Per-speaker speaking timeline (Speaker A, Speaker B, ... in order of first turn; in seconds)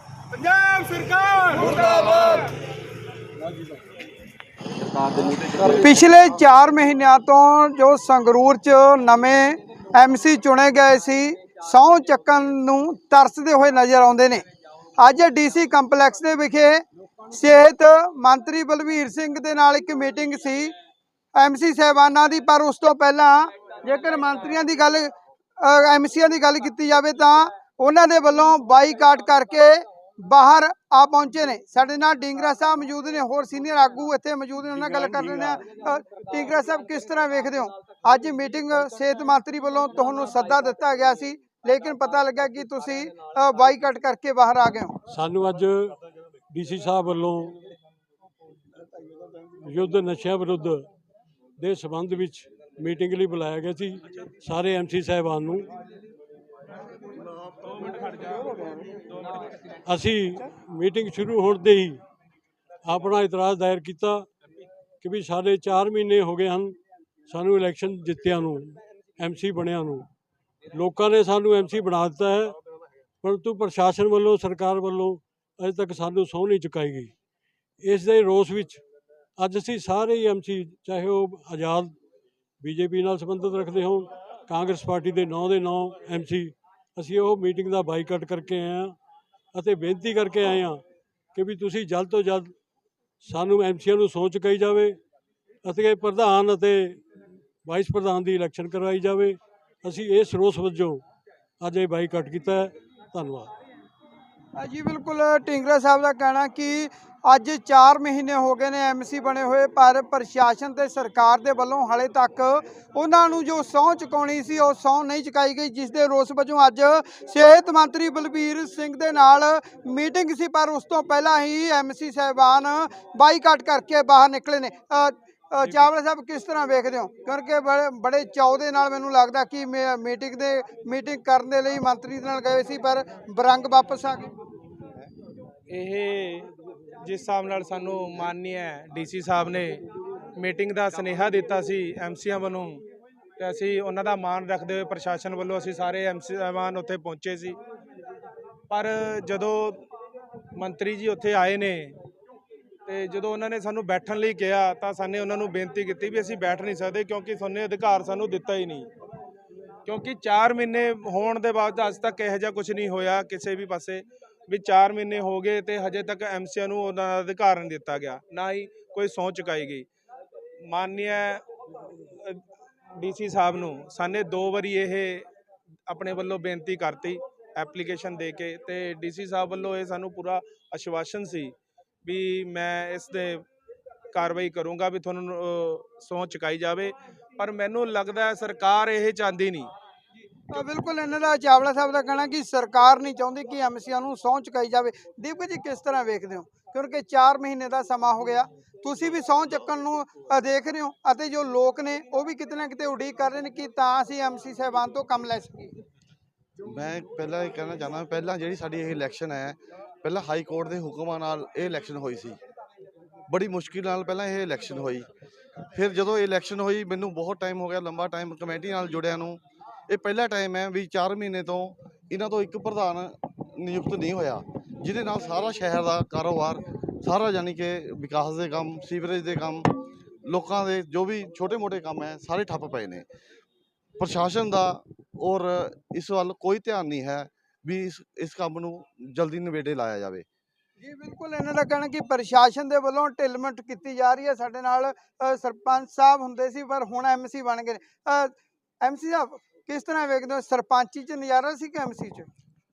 Speaker A: 0.3-2.5, 57.5-59.4, 135.7-139.8, 140.3-142.8, 143.4-147.6, 148.7-149.8, 150.6-152.0, 152.8-158.9, 159.8-169.9, 170.7-171.4, 171.9-172.4, 173.0-175.3, 175.9-183.4, 184.1-189.7
Speaker B: 5.7-14.4, 15.0-20.8, 21.4-25.1, 25.6-45.0, 104.6-134.3, 190.5-205.7, 240.8-252.3
Speaker C: 45.1-46.0, 46.5-47.6, 49.6-50.9, 51.6-55.7, 59.9-62.0, 62.9-64.3, 65.0-66.8, 67.3-70.1, 70.7-72.5, 73.2-77.1, 77.8-78.8, 79.4-82.0, 82.6-89.0, 89.5-90.8, 91.3-92.5, 93.2-95.0, 95.7-97.0, 97.6-101.0, 101.6-103.5
Speaker D: 206.6-212.4, 213.3-215.1, 215.7-229.7, 230.2-233.1, 234.0-240.2